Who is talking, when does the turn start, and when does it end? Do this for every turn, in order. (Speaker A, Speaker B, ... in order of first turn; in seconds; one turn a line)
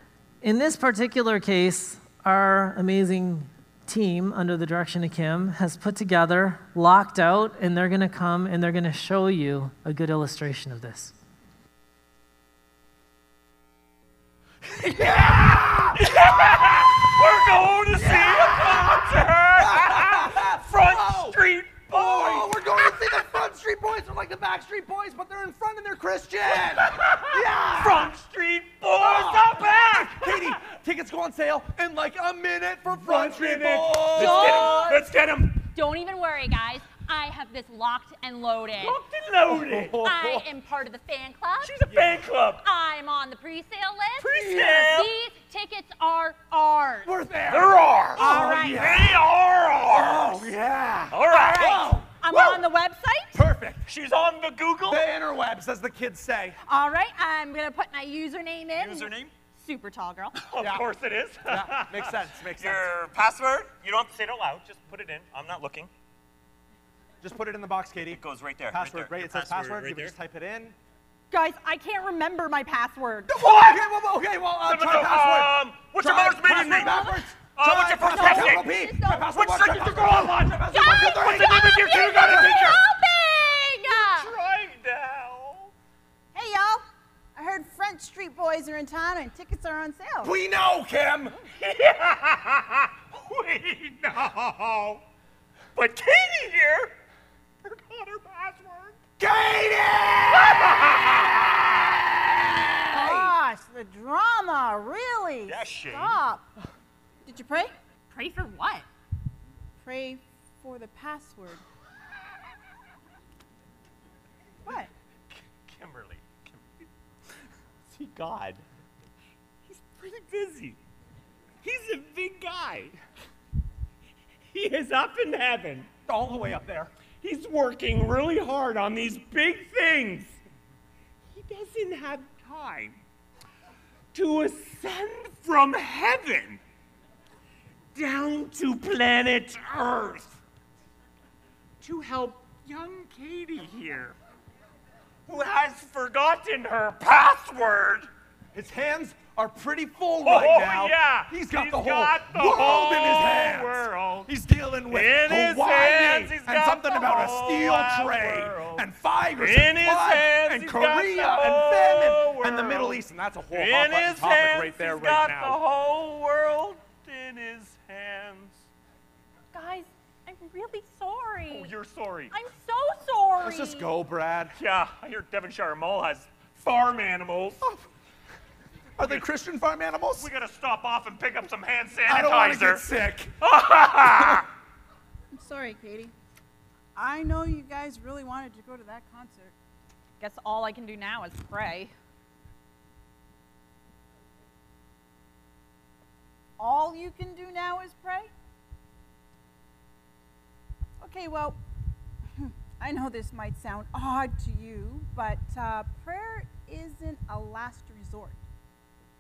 Speaker A: 0.4-11.1
Speaker B: 14.8-23.4
Speaker C: 14.9-17.1
Speaker C: 17.9-21.4
Speaker C: 21.9-28.2
Speaker B: 26.5-30.7
Speaker C: 29.0-34.9
Speaker B: 32.9-35.6
Speaker D: 34.1-35.1
Speaker D: 35.7-39.0
Speaker B: 38.8-40.0
Speaker C: 39.5-40.4
Speaker D: 40.0-41.7
Speaker B: 41.6-42.6
Speaker C: 41.9-42.2
Speaker D: 42.6-47.1
Speaker B: 44.2-45.1
Speaker C: 44.5-44.9
Speaker C: 47.0-49.3
Speaker B: 47.5-50.4
Speaker D: 48.2-48.8
Speaker C: 49.9-52.7
Speaker B: 51.1-51.9
Speaker D: 51.5-53.4
Speaker C: 53.3-53.8
Speaker B: 53.8-55.1
Speaker C: 54.9-56.6
Speaker D: 56.7-60.4
Speaker B: 58.8-59.3
Speaker B: 60.4-65.9
Speaker C: 60.6-60.9
Speaker C: 61.5-62.9
Speaker C: 67.2-70.8
Speaker B: 68.1-70.1
Speaker D: 71.3-73.3
Speaker C: 73.3-82.8
Speaker B: 73.4-73.9
Speaker B: 74.6-82.8
Speaker D: 76.8-77.1
Speaker D: 78.1-79.4
Speaker D: 80.7-84.3
Speaker B: 83.9-85.7
Speaker E: 86.3-90.3
Speaker C: 90.2-91.4
Speaker B: 91.6-95.0
Speaker B: 95.8-96.9
Speaker B: 97.6-99.0
Speaker C: 99.2-103.3
Speaker B: 100.4-101.4
Speaker E: 102.9-106.5
Speaker B: 105.5-106.2
Speaker E: 107.3-107.8
Speaker D: 108.1-108.9
Speaker E: 109.8-111.6
Speaker B: 115.6-116.8
Speaker B: 117.9-118.6
Speaker B: 119.7-120.8
Speaker B: 121.6-123.0
Speaker B: 124.5-125.9
Speaker C: 126.1-126.9
Speaker B: 127.2-130.4
Speaker B: 131.3-133.0
Speaker B: 134.1-136.6
Speaker B: 137.9-140.4
Speaker B: 141.8-144.2
Speaker B: 145.3-148.1
Speaker C: 148.5-165.6
Speaker B: 150.2-154.3
Speaker B: 154.9-168.6
Speaker D: 169.5-171.7
Speaker B: 171.5-172.3
Speaker D: 172.3-173.9
Speaker C: 173.4-174.6
Speaker B: 174.6-177.6
Speaker C: 179.0-180.3
Speaker B: 179.0-179.3
Speaker B: 180.2-184.5
Speaker C: 182.1-183.3
Speaker C: 184.0-184.5
Speaker E: 185.3-186.1
Speaker E: 186.9-189.5
Speaker D: 190.2-191.9
Speaker E: 196.6-198.3
Speaker E: 201.0-201.6
Speaker E: 202.4-208.4